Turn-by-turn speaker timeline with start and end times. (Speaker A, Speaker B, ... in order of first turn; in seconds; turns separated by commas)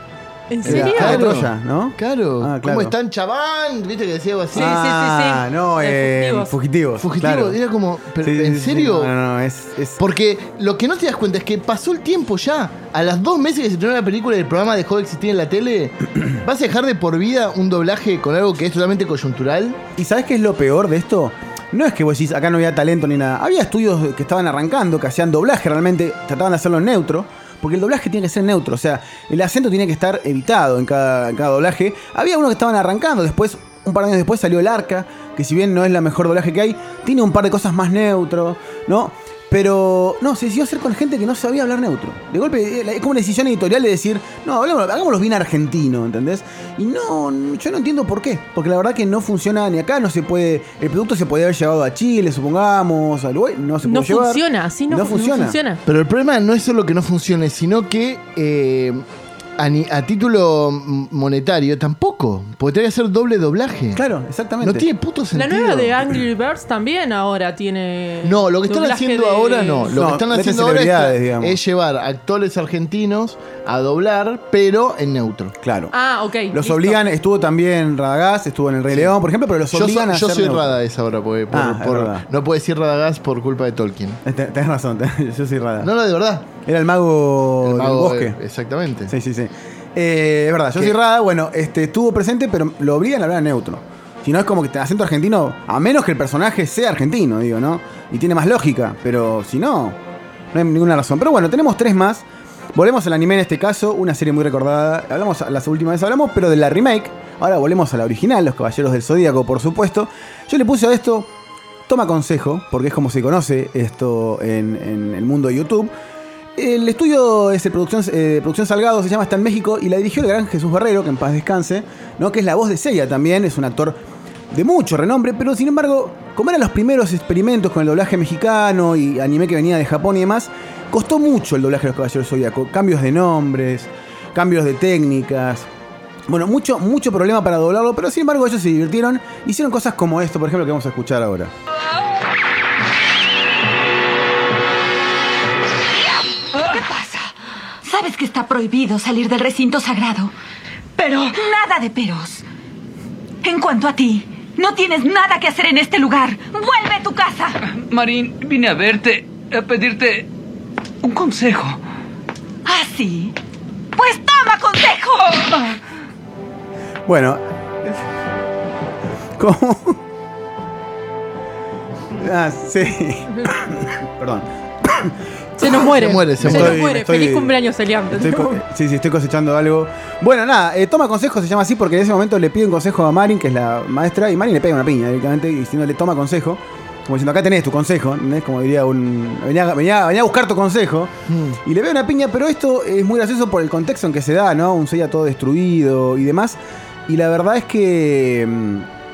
Speaker A: 0.5-1.3, Speaker B: 0.6-4.8, Speaker C: 0.6-2.9, Speaker C: 4.5-7.6, Speaker A: 4.5-6.5, Speaker B: 7.0-9.1, Speaker C: 8.2-10.0, Speaker B: 10.0-19.8, Speaker C: 19.9-55.6, Speaker A: 53.8-55.8, Speaker B: 55.9-59.0, Speaker B: 59.6-64.0, Speaker C: 63.9-64.8, Speaker B: 64.6-66.0, Speaker A: 65.3-70.0, Speaker B: 68.2-75.5, Speaker C: 69.9-71.6, Speaker C: 75.6-75.9, Speaker A: 75.9-77.0, Speaker C: 76.5-80.7, Speaker B: 78.9-79.2, Speaker B: 79.7-84.2, Speaker C: 81.5-82.2, Speaker C: 84.2-85.9, Speaker B: 85.8-86.5, Speaker C: 86.6-88.4, Speaker B: 87.6-89.1, Speaker C: 89.1-100.0, Speaker C: 100.5-102.2, Speaker C: 102.7-111.3, Speaker C: 111.9-115.9, Speaker C: 116.5-124.0, Speaker C: 124.5-135.7, Speaker C: 136.3-141.5, Speaker D: 146.6-147.3, Speaker D: 147.8-150.3, Speaker D: 151.0-152.4, Speaker D: 153.4-157.6, Speaker E: 157.7-160.3, Speaker E: 161.0-161.7, Speaker D: 161.1-161.8, Speaker D: 162.6-163.3, Speaker D: 163.9-165.8, Speaker C: 167.1-167.9, Speaker C: 169.4-170.0, Speaker C: 172.2-175.1, Speaker A: 175.6-178.6, Speaker B: 175.8-176.8, Speaker C: 176.4-177.5, Speaker C: 178.1-191.1, Speaker B: 191.3-191.6, Speaker C: 191.6-198.9